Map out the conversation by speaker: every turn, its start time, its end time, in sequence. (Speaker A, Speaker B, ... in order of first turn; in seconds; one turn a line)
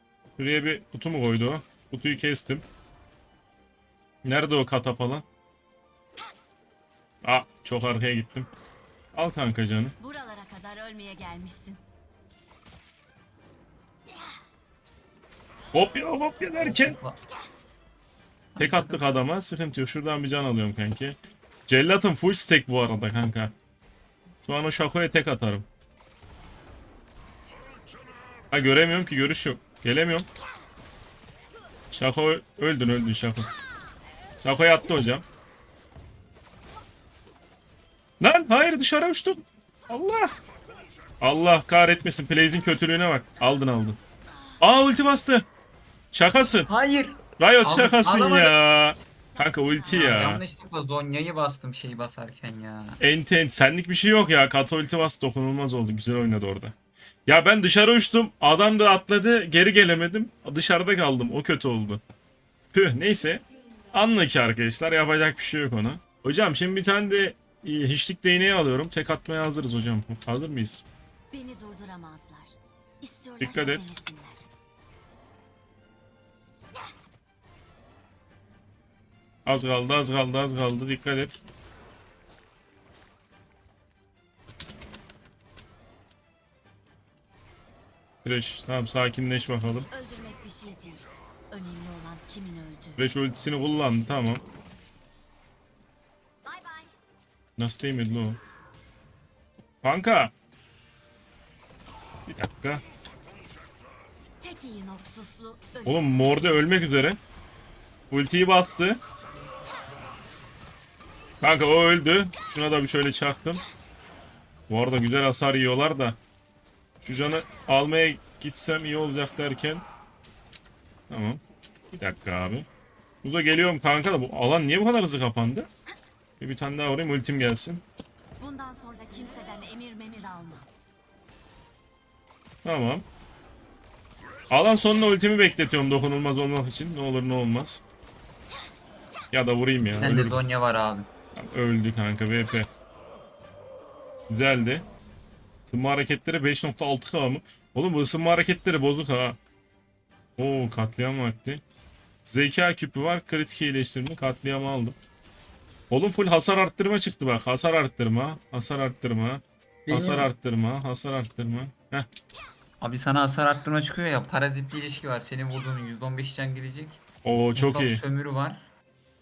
Speaker A: 0.4-2.6
Speaker A: 4.2-5.2
Speaker A: 7.2-8.5
Speaker A: 9.1-9.9
Speaker B: 10.0-11.8
Speaker A: 15.7-17.0
Speaker C: 16.6-17.2
Speaker C: 18.5-19.2
Speaker A: 18.6-23.5
Speaker A: 24.4-25.7
Speaker A: 28.5-30.3
Speaker A: 31.9-33.5
Speaker A: 34.4-35.2
Speaker A: 38.2-40.3
Speaker A: 41.2-44.0
Speaker A: 44.6-45.5
Speaker A: 46.1-46.7
Speaker C: 46.7-48.5
Speaker A: 47.4-50.4
Speaker B: 49.3-50.2
Speaker C: 49.9-53.0
Speaker A: 53.0-56.7
Speaker A: 57.2-62.0
Speaker A: 62.7-70.8
Speaker B: 71.3-74.5
Speaker A: 73.4-73.9
Speaker A: 79.5-81.4
Speaker A: 88.2-89.9
Speaker B: 89.8-93.0
Speaker A: 93.0-94.4
Speaker B: 96.4-96.9
Speaker A: 97.6-98.4
Speaker A: 99.8-100.3
Speaker A: 102.3-102.8
Speaker B: 104.4-106.2
Speaker A: 105.8-107.2
Speaker A: 108.1-109.0
Speaker A: 111.4-113.6
Speaker A: 114.7-116.2
Speaker A: 117.0-119.8
Speaker A: 121.1-121.4
Speaker A: 121.9-122.7
Speaker A: 123.2-125.7
Speaker A: 126.4-127.8
Speaker B: 128.4-130.7
Speaker A: 132.6-133.0
Speaker A: 134.5-137.8
Speaker A: 139.3-140.4
Speaker C: 139.9-141.1
Speaker A: 141.3-142.7
Speaker A: 144.3-144.8
Speaker A: 145.7-149.4
Speaker A: 150.4-151.6
Speaker A: 152.2-154.9
Speaker A: 155.9-162.1
Speaker C: 159.9-160.3
Speaker C: 162.8-167.0
Speaker A: 167.2-168.0
Speaker C: 167.5-168.7